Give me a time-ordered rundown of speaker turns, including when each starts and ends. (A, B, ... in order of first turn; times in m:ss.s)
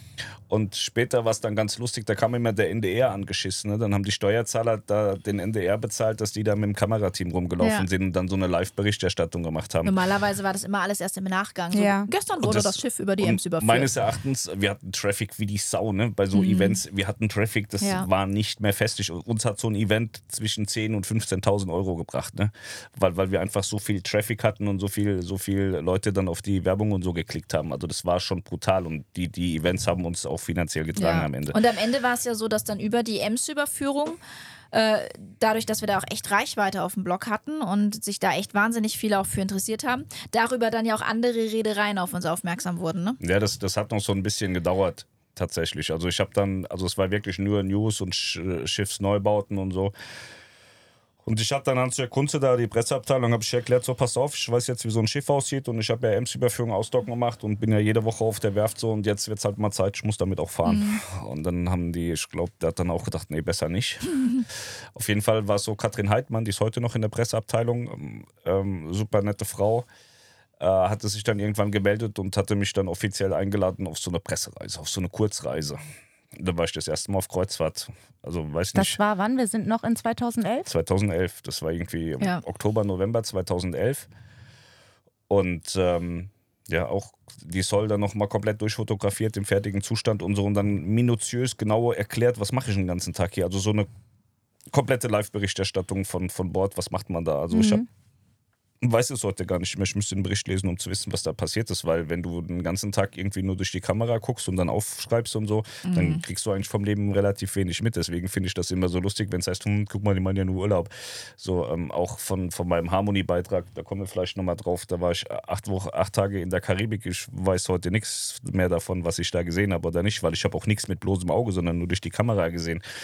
0:00.5-0:09.9 A
0:07.6-0:07.9 B
0:09.8-0:13.9 B
0:11.7-0:12.1 C
0:12.4-0:31.6 A
0:16.3-0:16.8 B
0:17.8-0:18.1 B
0:31.0-0:34.2 B
0:34.7-0:43.2 B
0:43.2-0:49.9 A
0:51.3-1:04.3 A
1:00.6-1:01.0 B
1:05.0-1:09.9 A
1:10.6-1:15.8 A
1:16.4-1:19.0 A
1:18.8-1:20.7 C
1:20.7-1:24.1 A
1:25.3-1:33.9 A
1:34.7-1:37.8 A
1:37.5-1:37.9 C
1:38.8-2:02.8 A
1:45.9-1:46.2 B